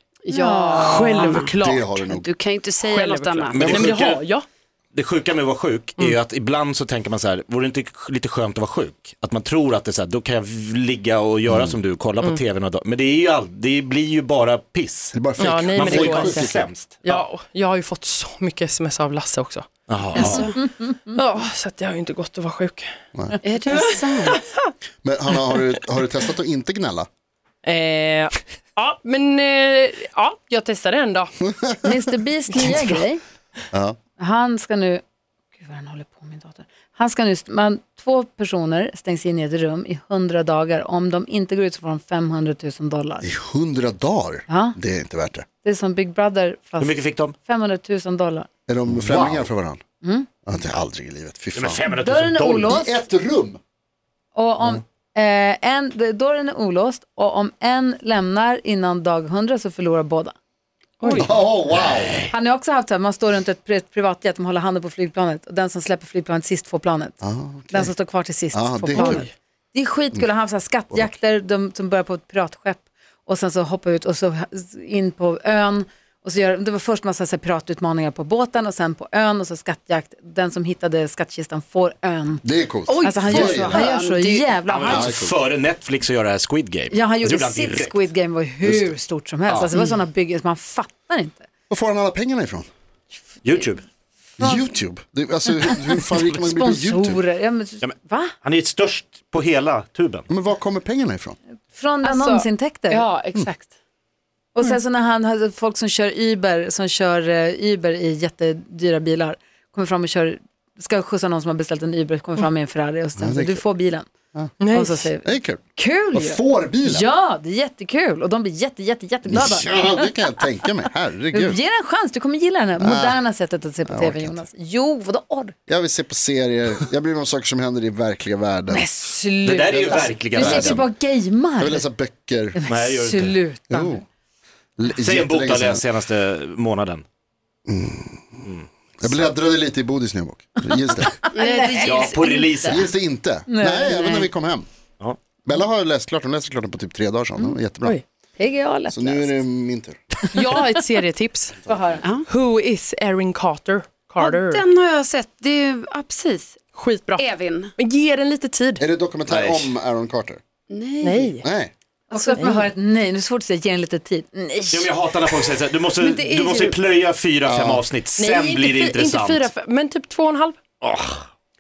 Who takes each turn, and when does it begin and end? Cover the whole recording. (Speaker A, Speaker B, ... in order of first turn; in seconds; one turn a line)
Speaker A: 0.2-1.5
Speaker B: 0.3-1.4
Speaker C: 0.8-2.0
Speaker D: 1.6-2.3
Speaker A: 2.1-4.1
Speaker C: 2.8-4.4
Speaker E: 3.5-4.2
Speaker E: 4.9-17.2
Speaker D: 11.5-11.8
Speaker D: 15.1-16.6
Speaker C: 15.4-19.6
Speaker E: 19.9-20.4
Speaker A: 20.1-20.6
Speaker B: 20.1-21.2
Speaker C: 21.1-22.9
Speaker A: 23.4-24.4
Speaker C: 23.7-24.7
Speaker D: 25.0-27.1
Speaker C: 27.6-31.3
Speaker D: 31.5-31.9
Speaker B: 31.8-33.2
Speaker C: 32.5-32.8
Speaker D: 33.7-34.0
Speaker B: 34.2-35.0
Speaker B: 35.6-43.3
Speaker D: 43.2-45.5
Speaker B: 44.5-44.8
Speaker B: 45.6-48.5
Speaker E: 46.8-47.3
Speaker D: 48.7-49.8
Speaker E: 48.9-49.4
Speaker B: 50.0-50.3
Speaker D: 50.5-51.8
Speaker E: 51.5-52.8
Speaker B: 51.9-53.0
Speaker D: 52.6-53.6
Speaker B: 54.3-60.3
Speaker C: 61.0-61.3
Speaker D: 61.1-62.2
Speaker B: 62.3-67.2
Speaker D: 67.2-67.9
Speaker B: 67.7-82.4
Speaker D: 68.5-69.2
Speaker D: 70.9-71.2
Speaker D: 82.4-83.9
Speaker A: 82.9-84.5
Speaker B: 83.0-85.1
Speaker E: 84.7-88.0
Speaker D: 84.8-85.4
Speaker B: 86.9-91.5
Speaker D: 88.6-88.9
Speaker D: 91.7-92.7
Speaker E: 93.4-93.8
Speaker B: 94.4-94.7
Speaker D: 94.4-97.2
Speaker B: 95.6-98.3
Speaker E: 97.8-100.3
Speaker D: 100.3-101.3
Speaker B: 101.7-103.0
Speaker A: 102.0-103.7
Speaker B: 104.5-114.0
Speaker D: 113.2-113.6
Speaker C: 114.6-115.1
Speaker B: 114.7-120.1
Speaker D: 115.2-115.6
Speaker D: 116.1-117.0
Speaker D: 119.2-121.6
Speaker B: 121.3-125.5
Speaker D: 122.8-123.2
Speaker D: 123.8-124.4
Speaker D: 125.7-128.9
Speaker B: 128.7-131.8
Speaker E: 129.4-130.8
Speaker D: 129.7-130.8
Speaker D: 131.6-132.6
Speaker B: 132.5-134.0
Speaker E: 132.7-133.4
Speaker D: 133.7-134.0
Speaker D: 134.8-135.8
Speaker E: 135.0-137.0
Speaker D: 137.7-138.4
Speaker D: 139.0-141.2
Speaker B: 140.8-142.5
Speaker A: 141.3-142.8
Speaker E: 141.8-142.8
Speaker D: 142.6-144.7
Speaker B: 143.5-144.3
Speaker D: 145.4-148.0
Speaker B: 148.4-149.4
Speaker D: 148.9-150.0
Speaker B: 150.2-150.7
Speaker C: 150.3-151.7
Speaker B: 151.7-152.1
Speaker C: 152.2-154.6
Speaker A: 154.2-156.6
Speaker C: 156.7-158.8
Speaker A: 157.2-157.7
Speaker D: 158.8-160.4
Speaker E: 159.3-159.6
Speaker A: 160.7-161.3
Speaker C: 161.0-161.4
Speaker D: 161.4-161.7
Speaker A: 162.1-162.6
Speaker B: 162.1-164.9
Speaker C: 162.3-162.6
Speaker E: 164.7-169.5
Speaker A: 165.9-166.8
Speaker D: 167.4-167.9
Speaker C: 168.2-170.6
Speaker E: 170.8-171.3